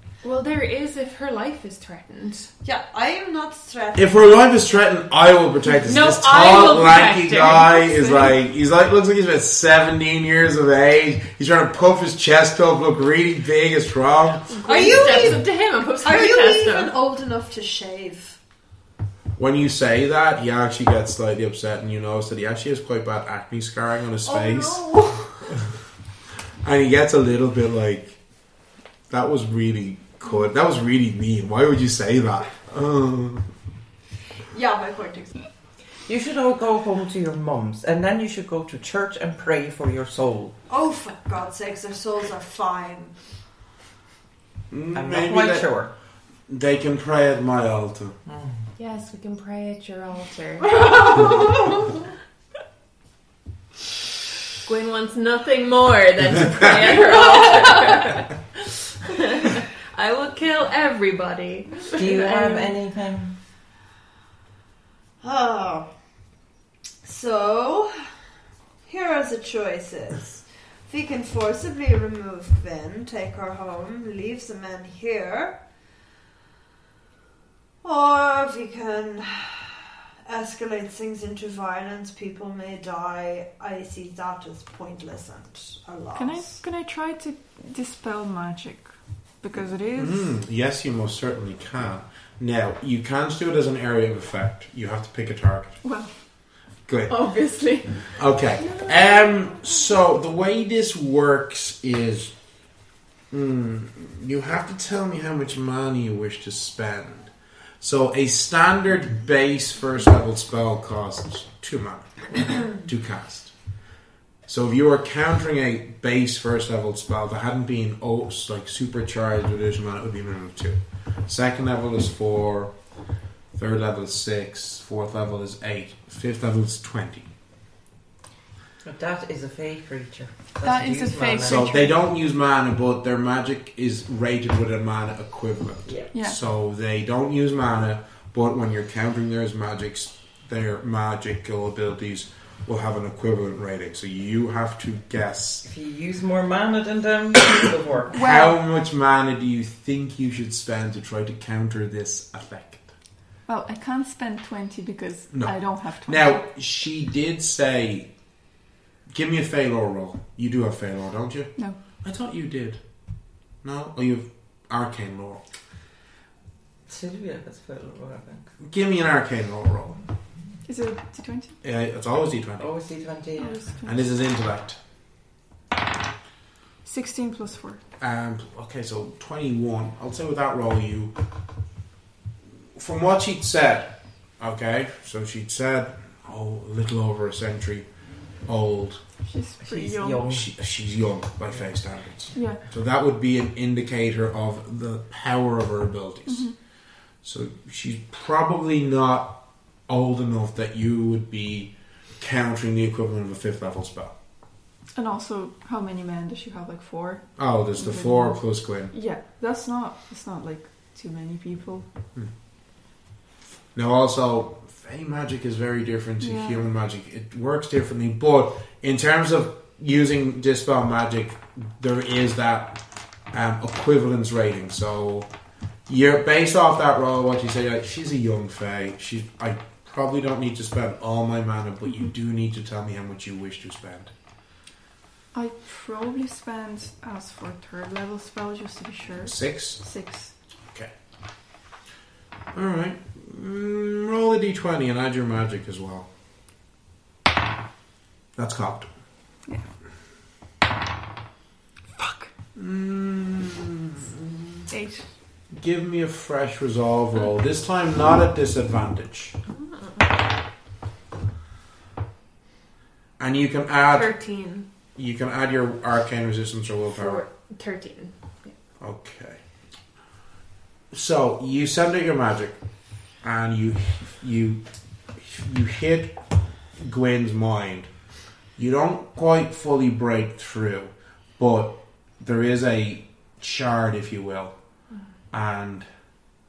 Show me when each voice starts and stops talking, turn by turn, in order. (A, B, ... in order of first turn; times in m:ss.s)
0:00.2-0:02.5 A
0:02.6-0:04.4 B
0:04.0-0:14.5 C
0:05.9-0:08.1 A
0:08.0-0:08.3 D
0:14.5-0:16.9 A
0:14.6-0:15.4 B
0:16.0-0:18.4 B
0:19.4-0:25.6 C
0:24.2-0:25.3 B
0:26.6-0:28.2 C
0:29.1-0:33.5 C
0:34.5-0:35.5 B
0:36.1-0:40.6 E
0:40.7-0:43.2 B
0:44.7-0:45.7 C
0:44.9-0:45.9 E
0:46.5-0:48.2 C
0:48.3-0:48.6 E
0:48.8-0:51.7 A
0:54.6-1:02.8 A
1:01.9-1:03.4 E
1:05.2-1:05.9 B
1:07.0-1:07.9 B
1:08.9-1:15.6 B
1:17.8-1:26.6 B
1:26.2-1:30.3 D
1:30.0-1:35.8 C
1:35.8-1:36.1 D
1:36.9-1:37.2 C
1:37.1-1:39.2 D
1:38.1-1:42.3 C
1:43.3-1:53.6 C
1:54.5-2:02.8 C
2:03.5-2:07.3 C
2:08.8-2:11.7 E
2:10.6-2:12.0 D
2:11.4-2:25.7 C
2:25.6-2:28.1 E
2:28.1-2:28.6 D
2:28.1-2:32.9 C
2:33.5-2:36.4 D
2:35.3-2:38.1 C
2:39.1-2:42.8 C
2:43.6-2:45.4 C
2:46.9-2:48.5 E
2:48.6-2:50.0 C
2:50.7-2:51.6 D
2:51.6-2:52.7 C
2:52.6-2:53.6 E
2:53.4-2:54.1 D
2:53.8-2:54.8 C
2:56.8-2:57.8 D
2:58.0-3:01.1 C
3:02.8-3:07.9 C
3:08.4-3:09.0 C
3:09.2-3:10.2 D
3:09.6-3:10.5 E
3:10.2-3:16.5 C
3:12.3-3:12.6 D
3:16.3-3:16.6 D
3:17.2-3:24.2 C
3:25.0-3:27.2 D
3:27.4-3:28.9 C
3:27.8-3:31.9 D
3:33.7-3:45.3 C
3:36.2-3:36.6 D
3:45.9-3:54.1 C
3:55.3-4:00.3 D
3:59.2-3:59.8 C
4:02.5-4:06.1 C
4:08.4-4:08.9 C
4:12.0-4:12.3 D
4:12.6-4:14.6 C
4:14.7-4:15.0 D
4:15.5-4:19.4 C
4:19.5-4:20.1 A
4:23.2-4:24.1 C
4:23.9-4:24.7 A
4:25.0-4:27.2 C
4:26.9-4:28.1 A
4:28.8-4:29.4 C
4:30.9-4:32.6 C
4:33.2-4:34.6 C
4:35.2-4:36.2 C
4:36.8-4:37.9 C
4:38.6-4:44.5 C
4:45.3-4:45.9 C